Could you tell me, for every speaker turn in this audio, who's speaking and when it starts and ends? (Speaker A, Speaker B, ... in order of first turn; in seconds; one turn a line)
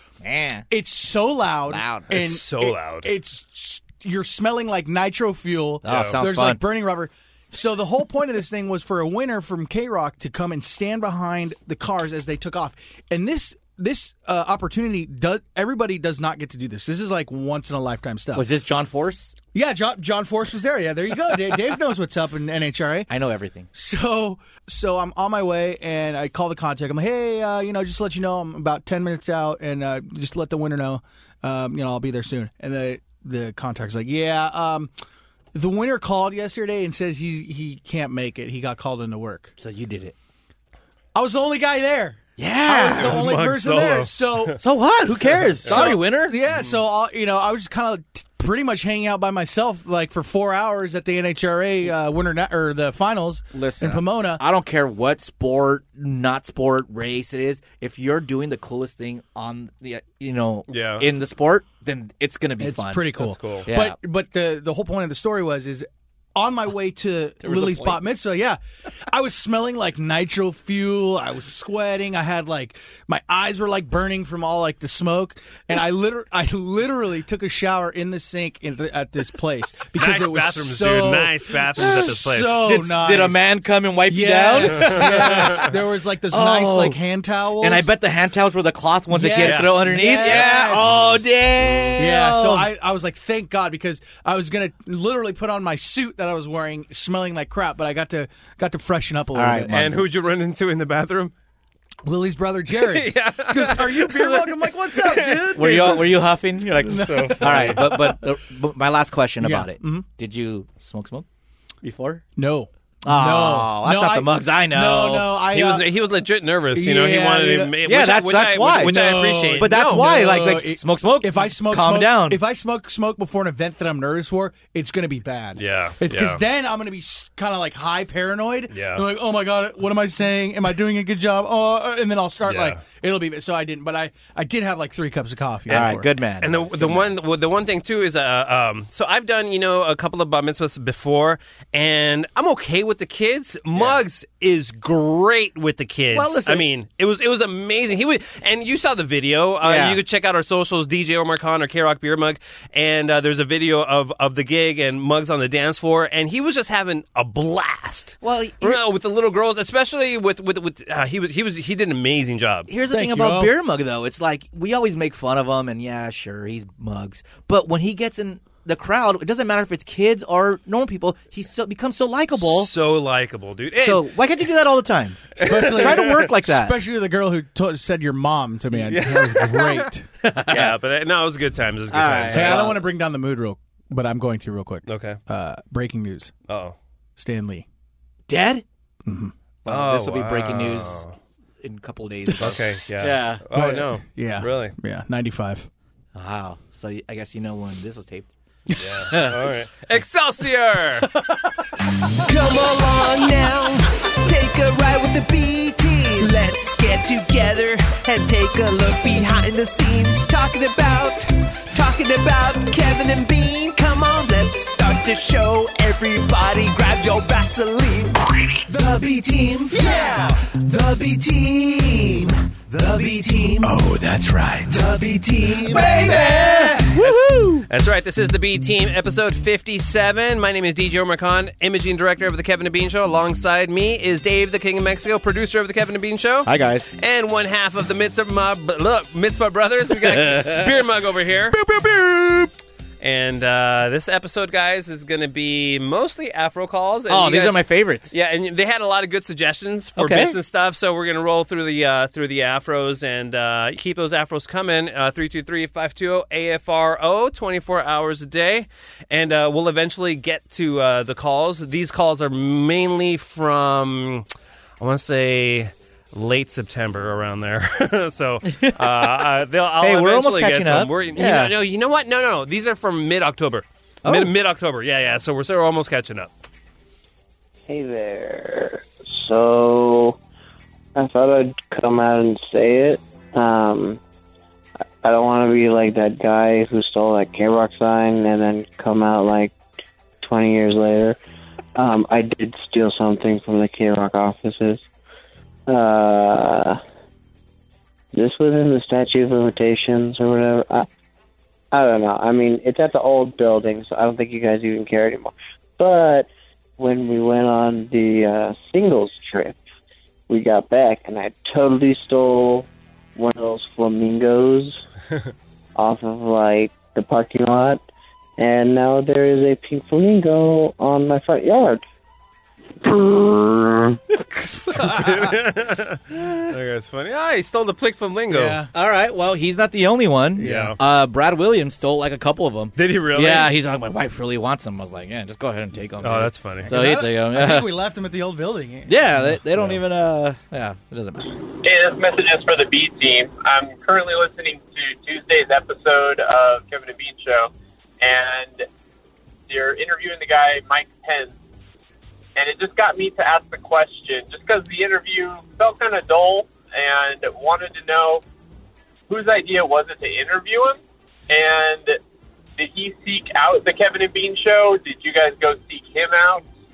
Speaker A: 0.2-0.7
Speaker B: 0.7-18.5
Speaker A: 1.7-2.2
Speaker C: 2.1-3.1
Speaker A: 5.8-6.6
Speaker C: 5.9-6.2
Speaker A: 18.3-19.3
Speaker B: 19.5-23.1
Speaker A: 23.1-23.7
Speaker B: 23.7-34.9
Speaker B: 35.5-39.5
Speaker A: 39.6-40.1
Speaker B: 41.1-44.6
Speaker A: 42.4-43.2
Speaker C: 42.9-44.5
Speaker A: 44.6-46.4
Speaker C: 45.6-46.0
Speaker B: 45.6-54.4
Speaker A: 53.5-63.1
Speaker C: 60.7-61.1
Speaker B: 62.6-87.9
Speaker C: 63.2-63.6
Speaker A: 63.7-64.0
Speaker A: 67.4-68.0
Speaker C: 80.0-82.6
Speaker A: 81.8-82.1
Speaker A: 82.7-85.7
Speaker C: 84.6-85.7
Speaker A: 86.3-87.0
Speaker A: 87.6-92.7
Speaker B: 89.1-91.2
Speaker C: 89.4-91.2
Speaker B: 92.0-100.0
Speaker A: 99.3-100.0
Speaker C: 99.7-101.3
Speaker B: 102.0-106.1
Speaker C: 102.9-106.0
Speaker A: 105.5-111.2
Speaker C: 106.9-107.8
Speaker B: 106.9-108.2
Speaker B: 109.4-110.1
Speaker A: 111.8-112.2
Speaker B: 112.4-115.9
Speaker A: 113.0-115.3
Speaker C: 115.5-120.1
Speaker B: 116.7-117.7
Speaker A: 117.8-122.4
Speaker B: 118.8-136.1
Speaker C: 125.6-126.4
Speaker C: 128.7-129.0
Speaker C: 132.5-132.8
Speaker A: 135.7-137.1
Speaker C: 136.4-162.7
Speaker A: 146.1-146.7
Speaker A: 149.6-150.0
Speaker A: 158.2-158.8
Speaker A: 162.7-172.7
Speaker B: 162.9-163.5
Speaker C: 172.4-174.1
Speaker A: 173.8-176.8
Speaker C: 175.4-176.2
Speaker B: 175.4-180.1
Speaker C: 178.9-179.6
Speaker A: 180.2-180.8
Speaker C: 180.5-182.7
Speaker A: 181.9-182.8
Speaker B: 182.3-186.3
Speaker C: 184.9-185.2
Speaker C: 186.5-186.8
Speaker B: 187.2-187.7
Speaker A: 188.3-188.6
Speaker B: 189.1-189.3
Speaker A: 189.7-191.0
Speaker C: 189.7-191.2
Speaker A: 191.6-193.4
Speaker C: 192.4-194.7
Speaker B: 193.5-195.7
Speaker A: 196.1-198.3
Speaker C: 198.8-201.1
Speaker A: 199.1-199.4
Speaker D: 204.9-205.7
Speaker C: 206.7-208.0
Speaker D: 211.8-218.1
Speaker D: 220.7-222.1
Speaker D: 223.0-223.4
Speaker A: 223.6-224.8
Speaker A: 225.6-227.7
Speaker B: 225.7-226.9
Speaker C: 227.7-241.6
Speaker A: 236.4-236.9
Speaker A: 240.1-240.7
Speaker A: 241.7-242.3
Speaker C: 243.0-264.3
Speaker A: 247.1-248.1
Speaker A: 250.0-250.4
Speaker C: 264.8-276.3
Speaker A: 268.4-269.2
Speaker A: 269.8-271.6
Speaker A: 274.0-274.3
Speaker E: 277.7-280.2
Speaker E: 280.9-284.0
Speaker E: 285.0-289.5
Speaker E: 290.2-291.2
Speaker E: 291.8-294.8
Speaker E: 295.7-296.8
Speaker E: 298.1-300.9
Speaker E: 301.7-309.6
Speaker E: 310.3-314.8
Speaker E: 315.8-317.8
Speaker E: 318.4-321.8
Speaker C: 324.3-328.6
Speaker B: 324.8-325.2
Speaker B: 328.3-328.7
Speaker A: 328.7-337.7
Speaker C: 330.4-330.8
Speaker B: 330.4-330.8
Speaker C: 332.8-333.5
Speaker C: 336.0-336.7
Speaker B: 336.7-339.3
Speaker A: 338.9-341.3
Speaker F: 341.6-348.6
Speaker F: 349.5-351.4
Speaker F: 352.4-358.2
Speaker F: 359.1-362.0
Speaker F: 362.6-366.5